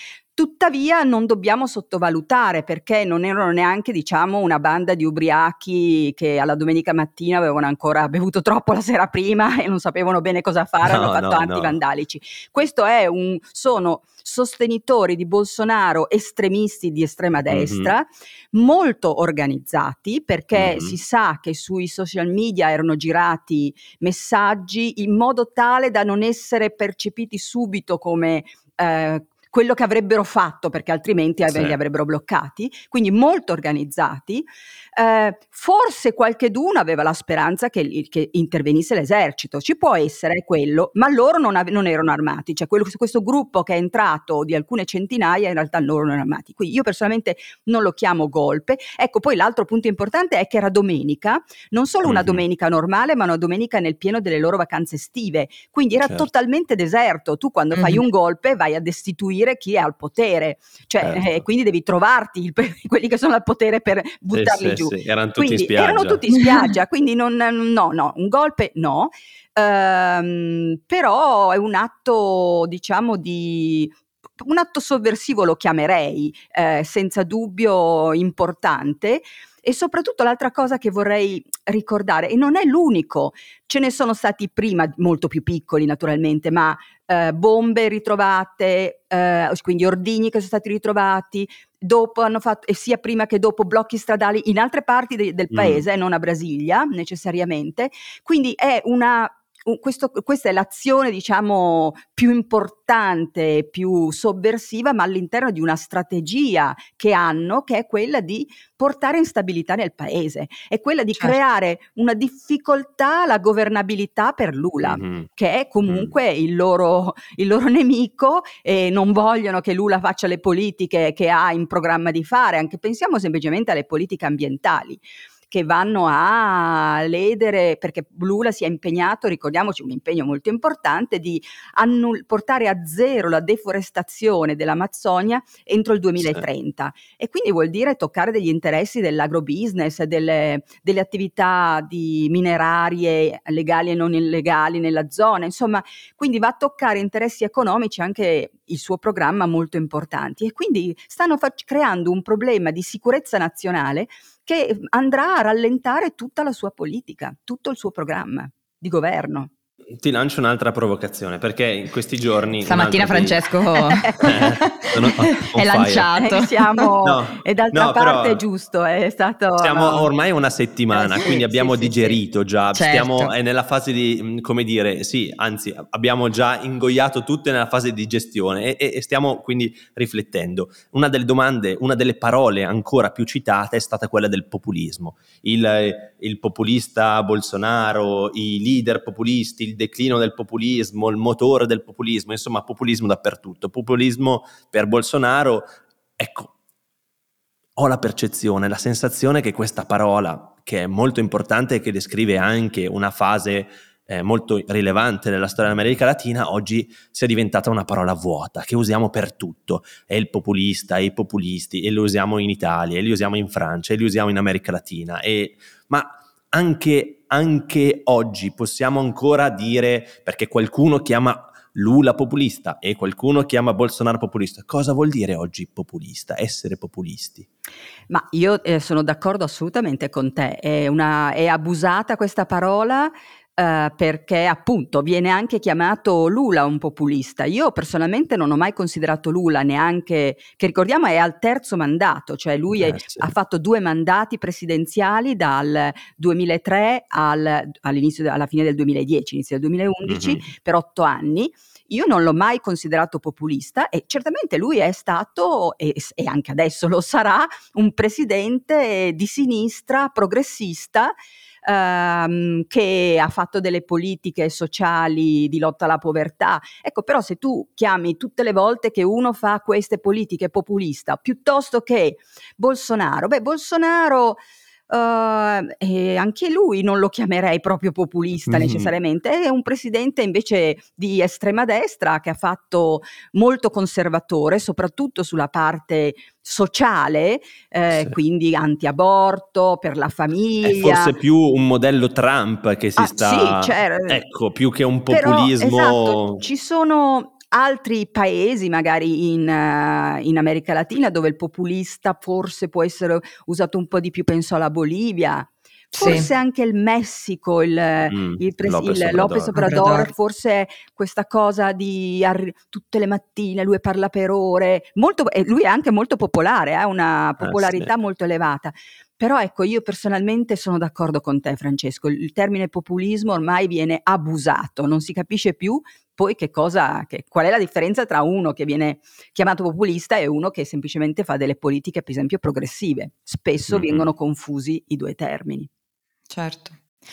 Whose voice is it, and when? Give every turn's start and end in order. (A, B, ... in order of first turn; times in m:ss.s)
0:00.3-2:39.5 A
0:10.8-0:11.8 B
0:17.5-0:17.9 B
0:20.5-0:21.0 B
0:31.4-0:31.8 B
0:52.0-0:52.4 B
0:56.0-0:56.3 B
0:57.8-0:58.0 C
1:01.0-1:01.4 B
1:04.3-1:06.2 B
1:35.5-1:35.8 B
1:54.8-1:55.3 B
1:55.8-1:56.1 B
2:16.2-2:16.4 B
2:40.0-2:43.4 B
2:42.6-2:46.9 C
2:43.9-2:44.3 A
2:44.2-2:46.1 B
2:46.2-2:50.1 A
2:47.0-2:48.4 B
2:49.6-3:15.6 B
2:50.9-2:52.2 A
2:52.7-2:53.3 C
3:16.2-3:16.5 B
3:17.8-3:47.5 B
3:48.1-4:21.1 A
4:02.7-4:03.3 B
4:10.0-4:10.5 B
4:21.6-4:51.1 A
4:38.4-4:38.9 B
4:47.9-4:48.2 B
4:50.6-4:56.4 B
4:53.0-4:54.2 A
4:55.1-5:35.7 A
5:05.9-5:06.3 C
5:08.1-5:09.7 B
5:09.5-5:10.1 C
5:17.4-5:17.9 B
5:33.7-5:34.1 B
5:36.3-5:36.8 C